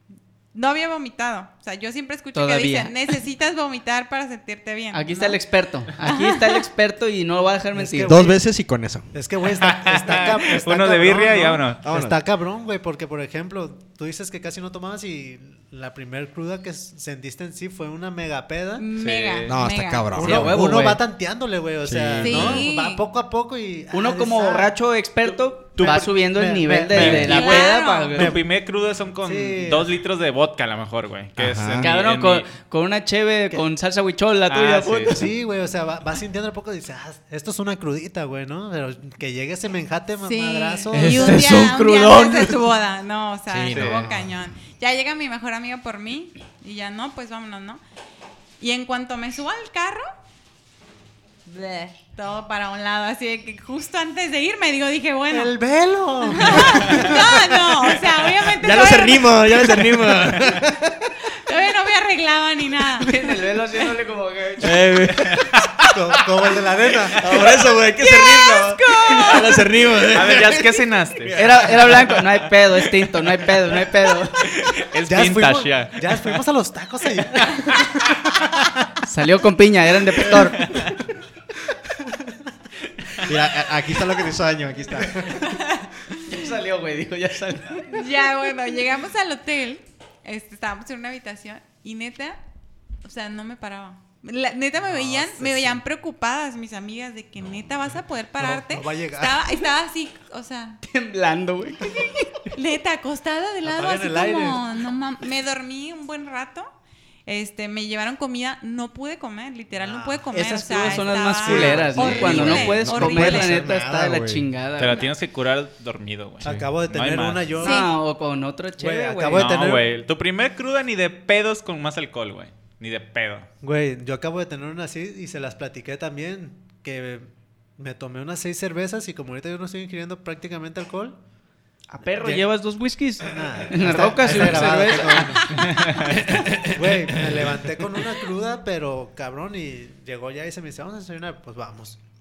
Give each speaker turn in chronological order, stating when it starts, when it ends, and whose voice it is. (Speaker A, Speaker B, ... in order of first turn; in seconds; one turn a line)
Speaker A: 0.5-5.4
Speaker B: 2.3-3.1
Speaker B: 4.9-8.2
Speaker A: 6.0-6.6
Speaker C: 7.7-8.4
Speaker D: 8.0-9.1
Speaker C: 9.1-18.9
Speaker E: 9.6-11.8
Speaker D: 11.8-12.2
Speaker A: 18.8-20.2
Speaker E: 19.0-19.5
Speaker D: 19.5-20.7
Speaker B: 20.2-21.0
Speaker C: 20.2-24.7
Speaker D: 21.8-22.7
Speaker A: 22.2-23.0
Speaker B: 23.9-28.4
Speaker C: 25.2-27.6
Speaker E: 25.8-26.1
Speaker E: 26.9-32.5
Speaker A: 27.2-28.2
Speaker C: 28.2-28.5
Speaker C: 29.2-30.0
Speaker D: 31.4-31.9
Speaker B: 31.8-35.3
Speaker E: 34.5-35.2
Speaker C: 35.1-41.6
Speaker A: 40.2-47.8
Speaker B: 40.9-42.7
Speaker D: 43.5-44.4
Speaker A: 48.6-50.1
Speaker A: 51.5-55.5
Speaker C: 55.3-57.5
Speaker A: 56.3-59.5
Speaker D: 58.6-61.1
Speaker E: 60.4-60.6
Speaker A: 61.3-63.1
Speaker B: 63.0-64.8
Speaker D: 64.6-65.6
Speaker E: 65.1-65.7
Speaker C: 65.8-67.6
Speaker D: 67.2-72.2
Speaker A: 68.0-69.6
Speaker E: 70.1-72.0
Speaker B: 71.3-74.5
Speaker E: 74.4-76.4
Speaker C: 75.0-78.8
Speaker B: 79.0-80.8
Speaker E: 80.6-81.0
Speaker D: 83.2-85.5
Speaker A: 85.4-86.2
Speaker B: 86.3-88.1
Speaker A: 87.9-92.4
Speaker A: 93.0-100.8
Speaker C: 94.8-95.8
Speaker C: 98.4-99.6
Speaker B: 100.8-102.5
Speaker A: 102.5-106.7
Speaker C: 103.6-104.7
Speaker A: 107.3-113.6
Speaker C: 109.8-110.2
Speaker B: 110.3-115.1
Speaker C: 111.4-112.2
Speaker D: 112.0-114.5
Speaker E: 114.8-117.5
Speaker C: 116.4-117.9
Speaker A: 117.6-117.9
Speaker B: 117.6-119.5
Speaker C: 118.8-119.9
Speaker E: 119.3-123.5
Speaker C: 123.6-127.3
Speaker C: 127.8-131.2
Speaker B: 131.9-135.7
Speaker C: 132.1-132.4
Speaker C: 133.2-142.0
Speaker D: 134.3-134.6
Speaker E: 135.5-136.2
Speaker D: 136.3-136.6
Speaker B: 136.4-136.7